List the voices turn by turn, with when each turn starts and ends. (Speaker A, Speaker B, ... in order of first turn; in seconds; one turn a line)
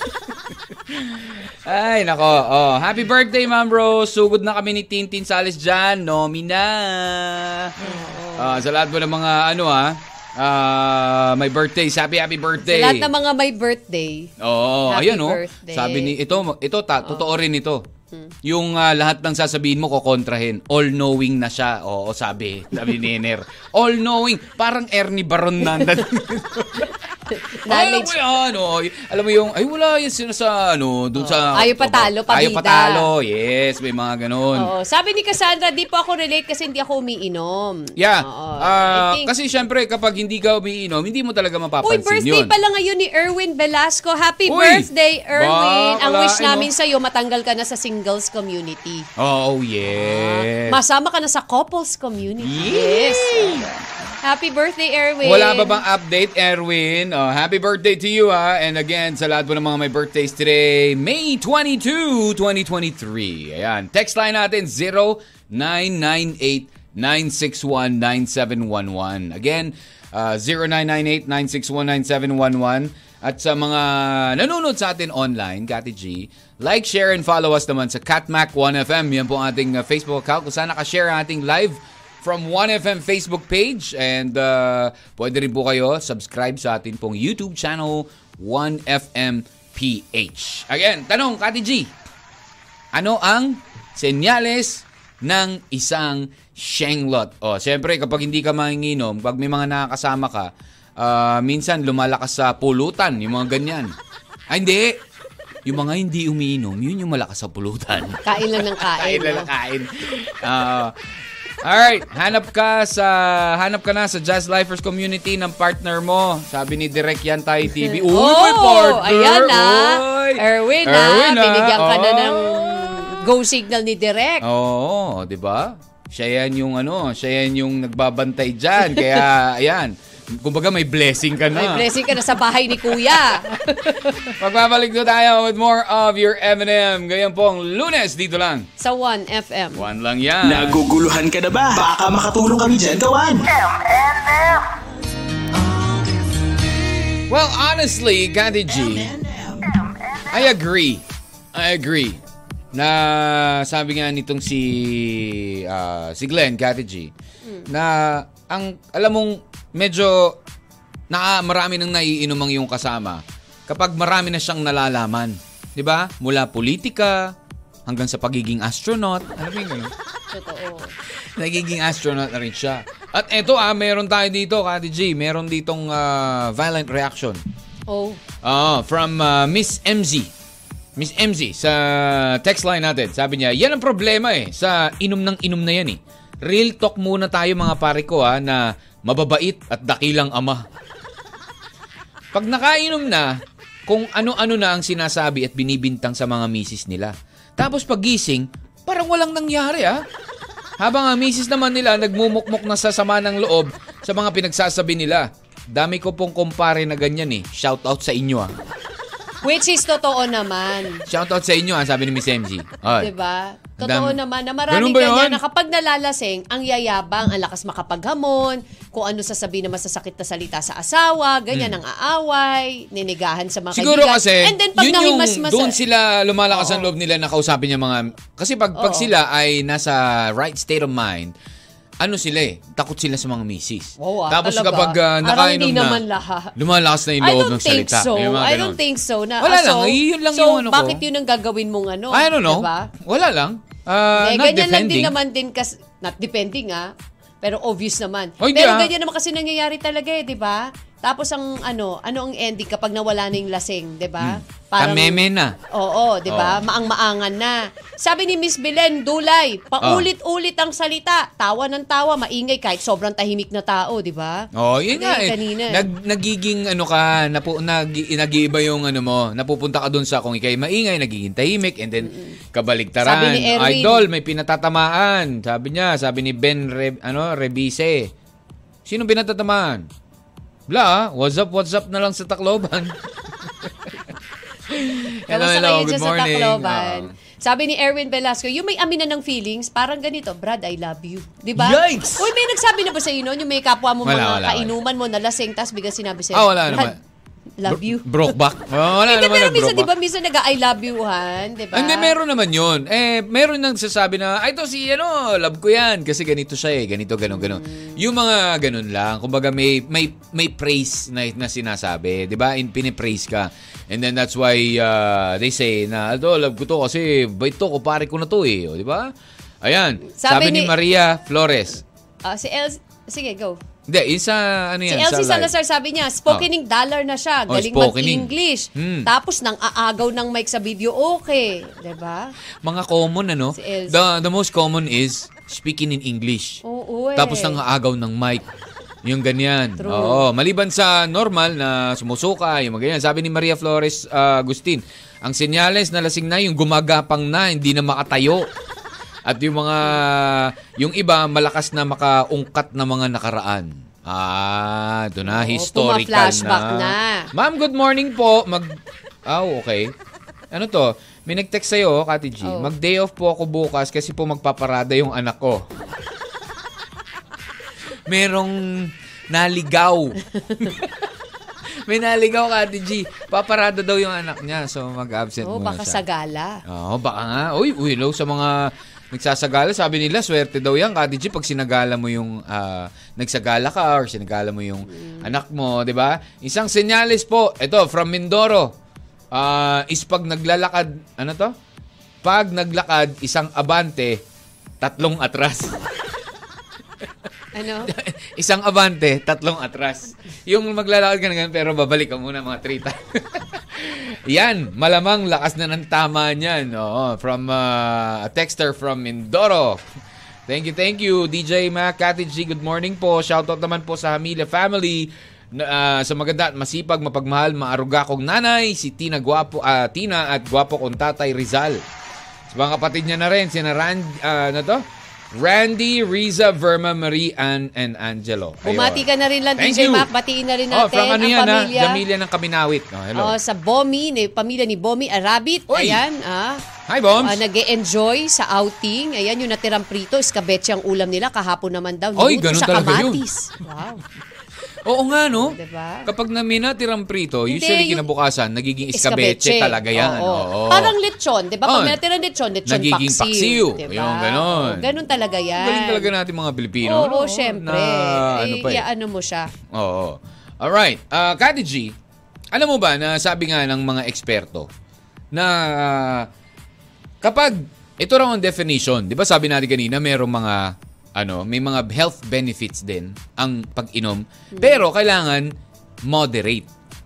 Speaker A: 0.9-13.1
Speaker B: 7.8-8.6
Speaker B: 12.6-14.3
Speaker A: 14.4-17.9
Speaker B: 14.9-16.2
Speaker B: 17.0-17.3
Speaker A: 18.4-26.9
Speaker B: 26.8-28.1
Speaker A: 27.7-34.7
Speaker B: 31.2-33.1
Speaker B: 34.5-39.3
Speaker A: 38.0-42.5
Speaker B: 41.8-49.1
Speaker A: 44.5-46.7
Speaker A: 49.2-50.8
Speaker B: 49.9-53.7
Speaker A: 52.4-53.8
Speaker B: 54.2-55.8
Speaker A: 55.2-91.9
Speaker A: 92.9-104.0
Speaker A: 104.5-105.0
Speaker A: 105.7-111.0
Speaker B: 108.2-109.5
Speaker A: 111.6-123.2
Speaker B: 117.8-124.5
Speaker A: 124.4-131.9
Speaker B: 128.8-129.2
Speaker B: 131.5-134.3
Speaker A: 132.7-133.4
Speaker A: 134.1-138.7
Speaker B: 138.8-139.8
Speaker A: 139.8-140.8
Speaker C: 140.4-144.7
Speaker C: 145.6-146.1
Speaker A: 147.3-149.1
Speaker C: 148.8-149.8
Speaker A: 150.3-152.2
Speaker A: 152.7-157.1
Speaker B: 157.4-157.7
Speaker A: 157.7-160.4
Speaker A: 161.1-167.3
Speaker A: 167.9-169.9
Speaker B: 170.3-170.9
Speaker A: 171.4-177.4
Speaker B: 177.9-178.2
Speaker A: 178.4-180.3
Speaker A: 181.0-190.7
Speaker A: 192.3-200.0
Speaker A: 200.8-208.5
Speaker B: 209.4-211.1
Speaker A: 211.1-213.1
Speaker B: 213.0-225.8
Speaker A: 213.8-215.4
Speaker A: 221.5-221.8
Speaker A: 223.7-231.3
Speaker B: 226.5-226.8
Speaker B: 228.8-229.1
Speaker A: 232.0-236.0
Speaker B: 234.0-236.6
Speaker A: 236.6-238.8
Speaker B: 237.2-242.9
Speaker A: 239.4-241.0
Speaker A: 242.1-245.2
Speaker B: 244.2-265.9
Speaker A: 248.4-248.9
Speaker A: 254.2-255.6
Speaker A: 256.3-256.6
Speaker A: 259.8-260.1
Speaker A: 264.5-278.1
Speaker B: 272.0-272.4
Speaker B: 273.0-274.1
Speaker A: 278.9-279.9
Speaker A: 280.7-283.0
Speaker A: 283.6-283.9
Speaker A: 284.7-287.1
Speaker B: 285.3-297.0
Speaker A: 291.6-292.3
Speaker A: 294.0-294.7
Speaker A: 296.3-297.0
Speaker B: 297.6-298.3
Speaker A: 297.7-299.9
Speaker B: 299.1-302.1
Speaker A: 301.7-319.1
Speaker B: 307.3-307.9
Speaker A: 319.6-321.8
Speaker B: 320.1-320.7
Speaker B: 322.2-323.6
Speaker A: 323.9-325.5
Speaker B: 324.9-332.3
Speaker A: 327.5-329.1
Speaker A: 332.6-336.6
Speaker B: 333.5-334.0
Speaker B: 336.6-337.6
Speaker A: 337.2-338.4
Speaker A: 339.1-348.5
Speaker B: 339.8-340.3
Speaker A: 349.3-359.9
Speaker B: 355.3-357.3
Speaker A: 360.5-365.6
Speaker B: 362.4-362.7
Speaker A: 368.1-371.1
Speaker A: 371.9-376.0
Speaker B: 375.4-376.6
Speaker A: 376.7-388.7
Speaker B: 384.9-385.3
Speaker A: 389.3-391.5
Speaker A: 392.2-394.2
Speaker A: 394.8-395.8
Speaker B: 397.5-397.9
Speaker A: 397.8-409.8
Speaker A: 410.5-421.8
Speaker A: 422.5-430.1
Speaker B: 428.6-432.0
Speaker A: 430.7-433.4
Speaker B: 433.1-436.6
Speaker A: 435.7-436.0
Speaker A: 436.9-437.4
Speaker B: 437.2-444.0
Speaker A: 442.2-443.2
Speaker A: 444.9-450.9
Speaker B: 445.3-446.1
Speaker B: 447.5-448.1
Speaker B: 448.9-456.1
Speaker A: 451.7-452.0
Speaker A: 452.7-454.9
Speaker A: 455.6-458.9
Speaker B: 456.8-459.5
Speaker A: 459.7-461.9
Speaker A: 462.5-464.7
Speaker A: 465.3-466.3
Speaker A: 467.2-475.5
Speaker B: 474.5-474.8
Speaker A: 476.1-476.7